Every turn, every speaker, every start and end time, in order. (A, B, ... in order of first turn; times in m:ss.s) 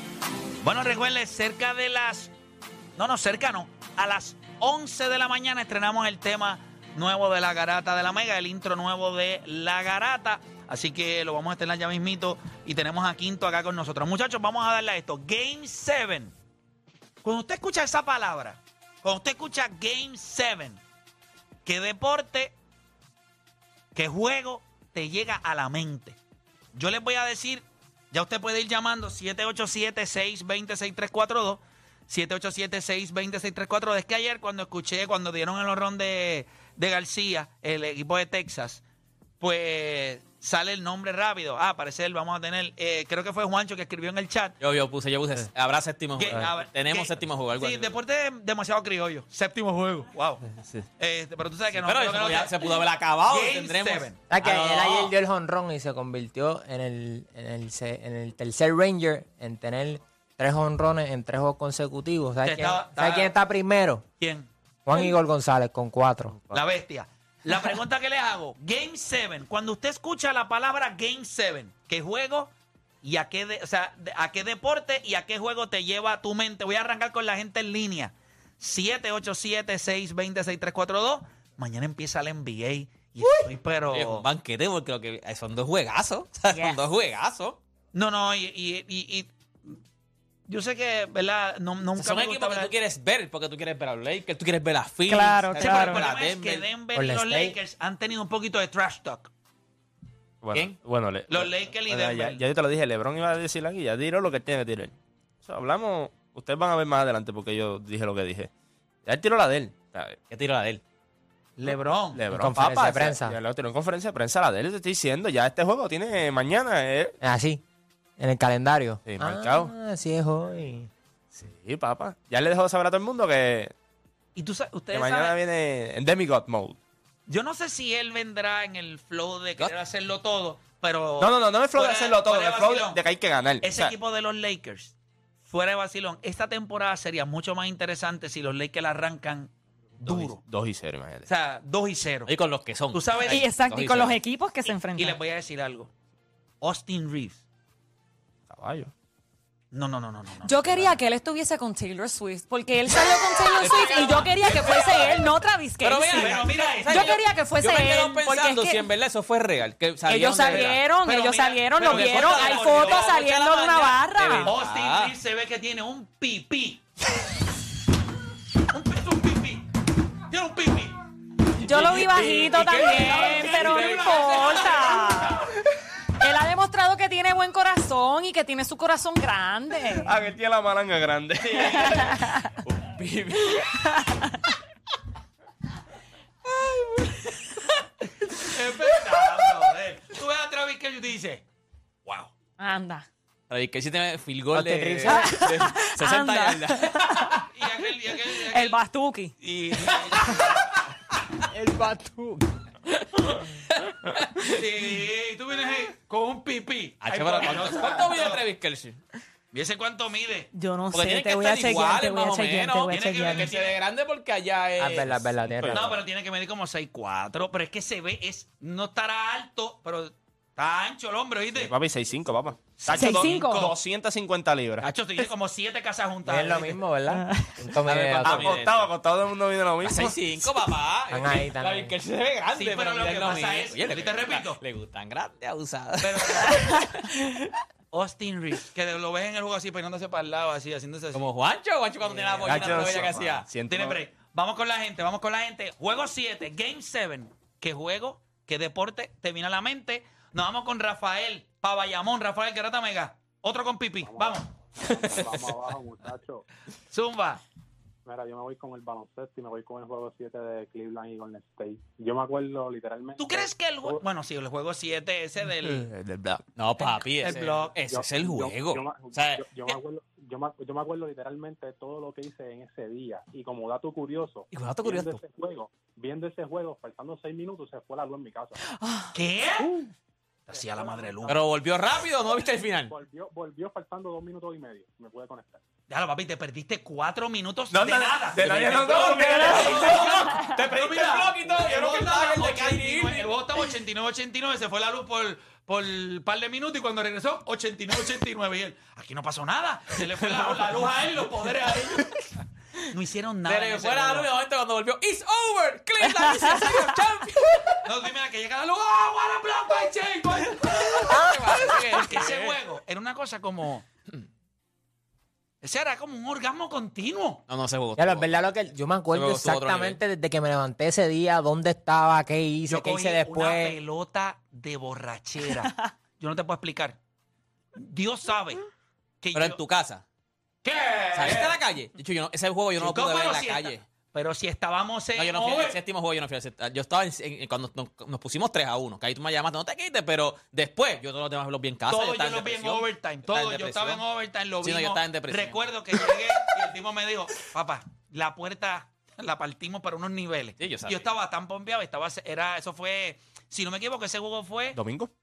0:00.6-0:02.3 A
0:03.0-0:16.3 A
0:17.2-0:20.8 A
0:21.7-0:22.6 A
0:24.0-0:26.2 A
0:26.8-0:38.8 A
0:39.4-0:44.6 A
0:44.6-0:48.0 B
0:46.2-0:50.4 A
0:51.0-0:54.2 A
0:51.8-0:55.1 B
0:54.3-1:04.0 C
1:02.4-1:03.3 A
1:04.2-1:04.5 A
1:04.9-1:06.4 C
1:06.5-1:12.5 A
1:13.0-1:24.3 A
1:23.9-1:27.6 B
1:26.5-1:26.8 D
1:27.9-1:29.8 A
1:30.5-1:32.7 A
1:31.9-1:36.7 B
1:35.1-1:36.1 D
1:35.6-1:39.3 A
1:36.9-1:37.6 C
1:40.4-1:48.5 E
1:41.3-1:42.4 A
1:49.0-1:50.2 E
1:50.3-1:50.8 B
1:51.6-1:52.2 A
1:51.7-1:57.2 E
1:52.3-1:53.4 C
1:57.2-1:57.6 C
1:58.2-2:00.9 C
1:59.0-1:59.7 E
2:01.3-2:03.7 E
2:04.4-2:05.4 A
2:04.9-2:06.8 E
2:07.3-2:13.0 A
2:11.2-2:13.9 E
2:13.6-2:20.4 A
2:20.0-2:21.3 E
2:21.3-2:22.3 A
2:22.3-2:24.2 B
2:22.9-2:23.4 A
2:23.3-2:25.2 D
2:25.0-2:25.9 A
2:26.6-2:27.4 A
2:28.5-2:28.9 E
2:29.7-2:30.8 A
2:30.4-2:38.9 D
2:33.3-2:40.9 B
2:34.6-2:35.1 A
2:36.1-2:37.2 A
2:40.0-2:44.5 D
2:40.5-2:43.1 A
2:41.8-2:45.2 B
2:44.4-2:46.8 A
2:48.7-2:49.7 A
2:50.3-2:51.0 A
2:51.6-2:54.6 B
2:51.6-2:55.4 D
2:52.9-2:55.5 A
2:56.2-3:00.2 D
3:00.0-3:02.1 E
3:01.7-3:02.4 D
3:01.9-3:03.6 B
3:08.4-3:11.4 A
3:12.1-3:12.3 A
3:12.6-3:13.1 D
3:13.5-3:17.0 B
3:14.5-3:15.5 C
3:15.1-3:17.4 D
3:17.5-3:18.8 A
3:18.5-3:19.4 D
3:19.4-3:20.6 A
3:21.5-3:22.4 C
3:24.4-3:28.4 A
3:27.0-3:29.0 B
3:29.5-3:30.5 A
3:30.5-3:33.5 D
3:30.9-3:35.3 B
3:32.9-3:33.8 A
3:34.8-3:36.0 C
3:35.6-3:35.8 E
3:35.7-3:41.7 A
3:41.6-3:44.9 E
3:42.8-3:43.8 A
3:42.9-3:43.7 D
3:44.8-3:46.8 A
3:46.2-3:48.6 C
3:47.1-3:47.5 D
3:47.8-3:48.9 B
3:48.2-3:50.2 E
3:49.8-3:57.0 B
3:51.1-3:52.0 C
3:52.6-3:54.6 A
3:56.0-3:56.7 A
3:57.9-4:01.2 A
4:01.1-4:03.5 B
4:02.0-4:14.5 A
4:02.4-4:04.0 E
4:14.0-4:16.4 F
4:16.9-4:17.4 A
4:18.1-4:24.0 F
4:23.2-4:25.9 A
4:25.9-4:26.4 E
4:26.5-4:29.4 B
4:26.8-4:27.8 A
4:27.8-4:38.6 F
4:34.5-4:35.2 B
4:39.2-4:39.7 A
4:39.6-4:39.9 F
4:40.5-4:41.4 A
4:40.5-4:41.5 F
4:41.3-4:42.9 B
4:42.9-4:45.6 F
4:45.9-5:02.2 A
4:47.7-4:50.2 E
4:48.4-4:53.4 B
5:02.9-5:04.3 A
5:03.5-5:07.8 B
5:06.3-5:06.6 D
5:07.8-5:13.9 A
5:10.6-5:12.6 B
5:15.6-5:17.4 A
5:17.5-5:18.3 B
5:18.0-5:23.8 C
5:19.1-5:20.0 B
5:22.7-5:27.0 A
5:27.8-5:28.6 A
5:29.2-5:29.6 A
5:29.3-5:30.0 B
5:30.6-5:31.6 A
5:31.1-5:33.8 B
5:32.8-5:35.8 A
5:35.2-5:44.0 B
5:41.9-5:54.8 A
5:44.6-5:46.0 B
5:50.6-5:51.1 B
5:54.7-5:55.1 E